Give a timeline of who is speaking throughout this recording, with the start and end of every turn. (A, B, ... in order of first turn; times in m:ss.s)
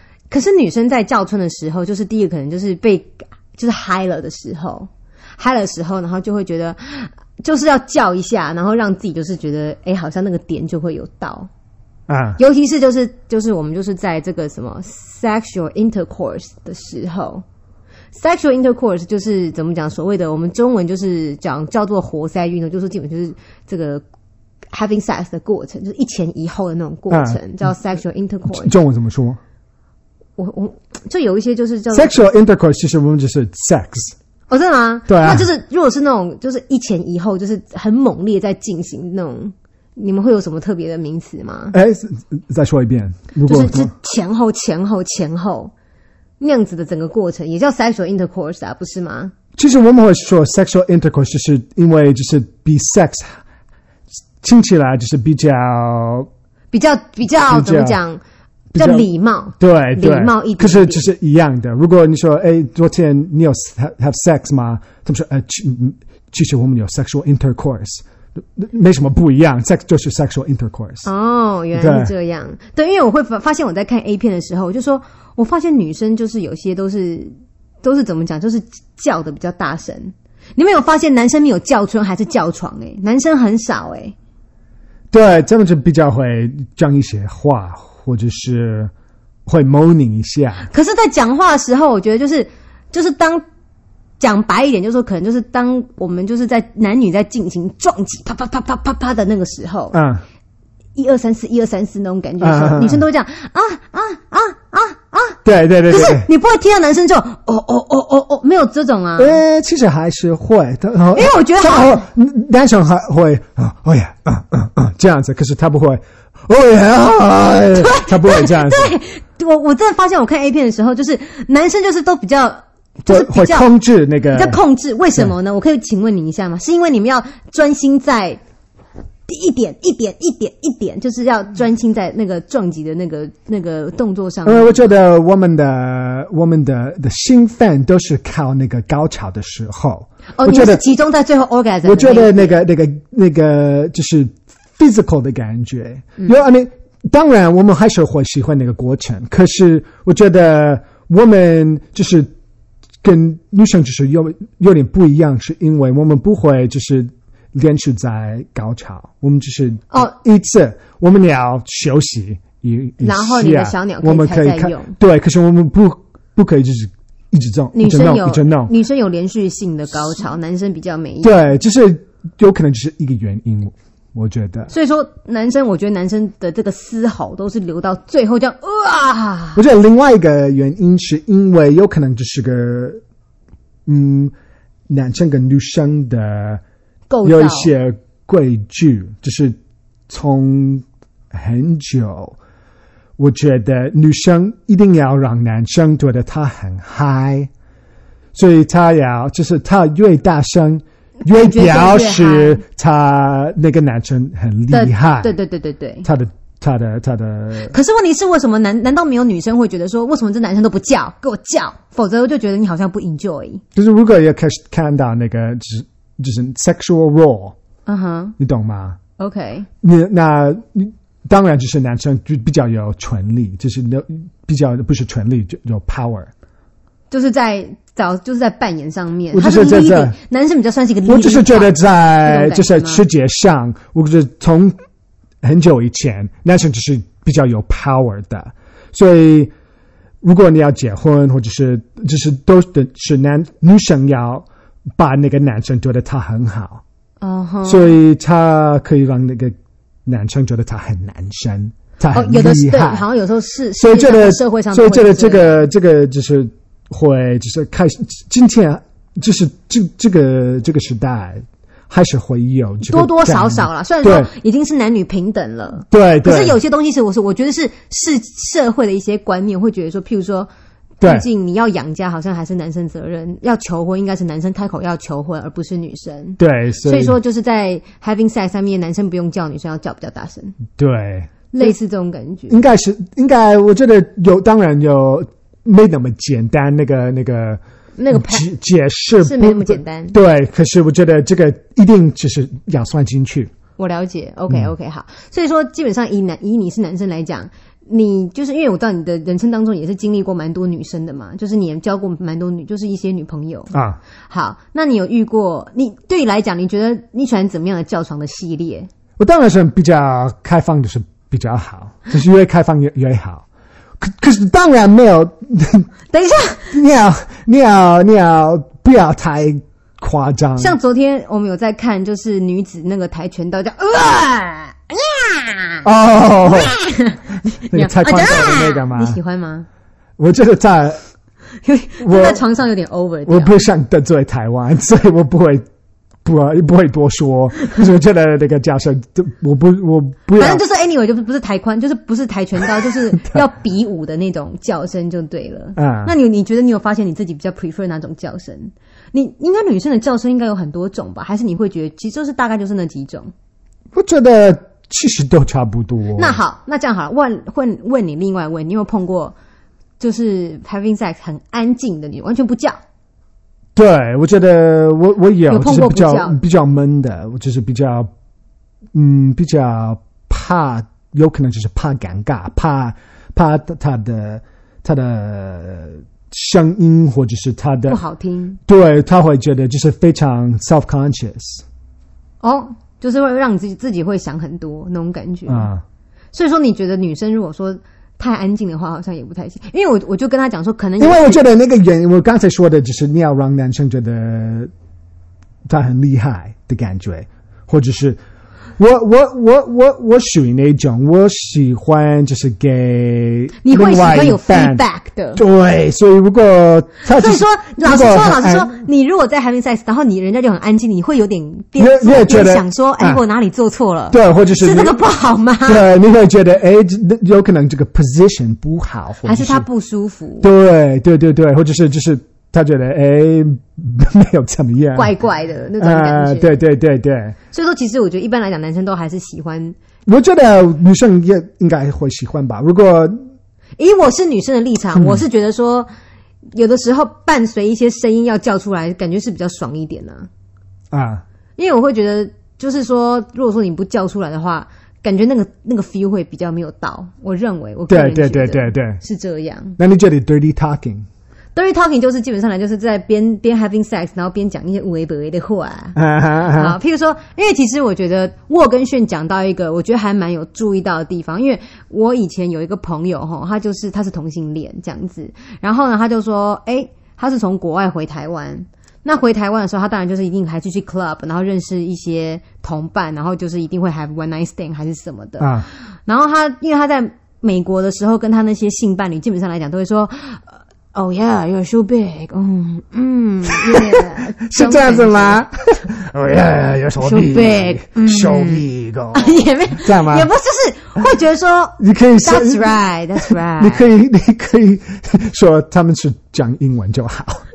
0:00.3-0:11.5 A
0:12.1-0:12.4 B
0:12.4-0:17.4 A
0:18.1-0:24.0 A
0:24.7-0:28.7 A
0:27.1-0:27.4 B
0:28.5-0:29.4 B
0:30.4-0:32.2 A
0:31.9-0:34.2 B
0:34.5-0:41.8 A
0:35.1-0:35.5 B
0:41.7-0:43.9 B
0:43.4-0:45.7 A
0:46.4-0:49.3 A
0:49.6-0:53.4 B
0:54.4-0:56.3 B
0:56.7-0:58.2 A
0:57.3-0:58.0 B
0:58.7-0:59.1 B
0:58.7-1:01.1 A
0:59.6-1:11.1 B
1:11.0-1:24.1 A
1:11.7-1:12.1 B
1:25.1-1:28.9 B
1:29.4-1:30.7 B
1:30.7-1:33.4 A
1:34.2-1:40.0 A
1:39.9-1:40.2 B
1:41.0-1:49.4 A
1:42.4-1:43.0 B
1:45.4-1:46.3 B
1:49.2-1:58.9 B
1:51.1-1:52.0 A
1:57.7-2:03.7 A
2:03.0-2:04.6 B
2:04.3-2:08.4 A
2:09.3-2:14.9 A
2:14.4-2:20.8 B
2:20.4-2:22.6 A
2:21.8-2:32.3 B
2:33.0-2:48.7 B
2:43.0-2:44.9 A
2:47.7-2:51.3 A
2:51.2-2:54.7 B
2:54.7-2:59.6 A
2:59.6-3:03.0 B
3:03.8-3:04.3 B
3:04.9-3:06.6 B
3:07.1-3:07.7 A
3:07.2-3:09.6 B
3:10.1-3:12.4 B
3:13.2-3:17.5 B
3:18.3-3:25.4 B
3:21.2-3:22.6 A
3:24.7-3:26.1 A
3:26.0-3:27.7 B
3:27.7-3:33.6 A
3:33.7-3:37.5 B
3:37.8-3:38.3 A
3:38.4-3:39.0 B
3:39.2-3:39.7 A
3:39.8-3:46.3 B
3:47.1-3:53.0 A
3:49.3-3:50.2 B
3:51.1-3:54.8 B
3:55.4-3:59.5 B
4:00.2-4:04.5 B
4:05.0-4:06.8 B
4:07.2-4:08.0 A
4:07.6-4:09.5 B
4:10.0-4:13.0 B
4:12.1-4:15.7 A
4:13.8-4:24.3 B
4:22.9-4:30.5 A
4:25.9-4:26.6 B
4:31.0-4:40.6 A
4:36.4-4:37.2 B
4:40.8-4:41.8 B
4:41.5-4:42.6 A
4:42.5-4:53.5 B
4:48.0-4:48.5 A
4:49.2-4:50.2 A
4:53.8-5:03.8 A
5:03.7-5:04.0 B
5:04.3-5:08.9 A
5:09.2-5:13.4 B
5:14.0-5:15.9 B
5:16.1-5:16.7 A
5:16.7-5:20.8 B
5:20.6-5:25.8 A
5:25.8-5:26.8 B
5:26.5-5:29.6 A
5:27.7-5:29.2 B
5:30.2-5:31.0 B
5:31.6-5:33.6 A
5:32.0-5:32.4 B
5:33.3-5:35.6 B
5:36.2-5:40.6 B
5:40.4-5:53.3 A
5:43.1-5:43.4 B
5:45.8-5:46.1 B
5:53.9-5:56.4 B
5:56.2-5:59.3 A
6:00.0-6:02.8 A
6:03.8-6:08.1 B
6:05.5-6:06.4 A
6:08.9-6:18.0 B
6:17.9-6:18.6 A
6:18.7-6:21.6 B
6:22.4-6:25.7 A
6:25.5-6:25.8 B
6:26.3-6:31.4 A
6:31.0-6:34.7 B
6:35.7-6:38.2 B
6:38.8-6:44.8 B
6:43.6-6:45.4 A
6:45.4-6:48.7 B
6:47.1-6:55.8 A
6:51.8-6:53.2 B
6:54.1-6:55.0 B
6:55.6-6:59.6 B
6:59.2-7:00.5 A
7:00.4-7:05.1 B
7:04.9-7:06.6 A
7:05.8-7:07.4 B
7:07.5-7:09.8 A
7:10.0-7:13.2 B
7:13.8-7:15.9 A
7:14.9-7:15.2 B
7:16.5-7:20.3 A
7:20.9-7:21.2 B
7:21.6-7:29.8 A
7:27.9-7:29.0 B
7:29.8-7:31.1 B
7:31.5-8:05.4 A
7:36.0-7:36.8 B
7:55.4-7:55.7 B
8:03.5-8:10.3 B
8:07.0-8:13.9 A
8:11.8-8:17.4 B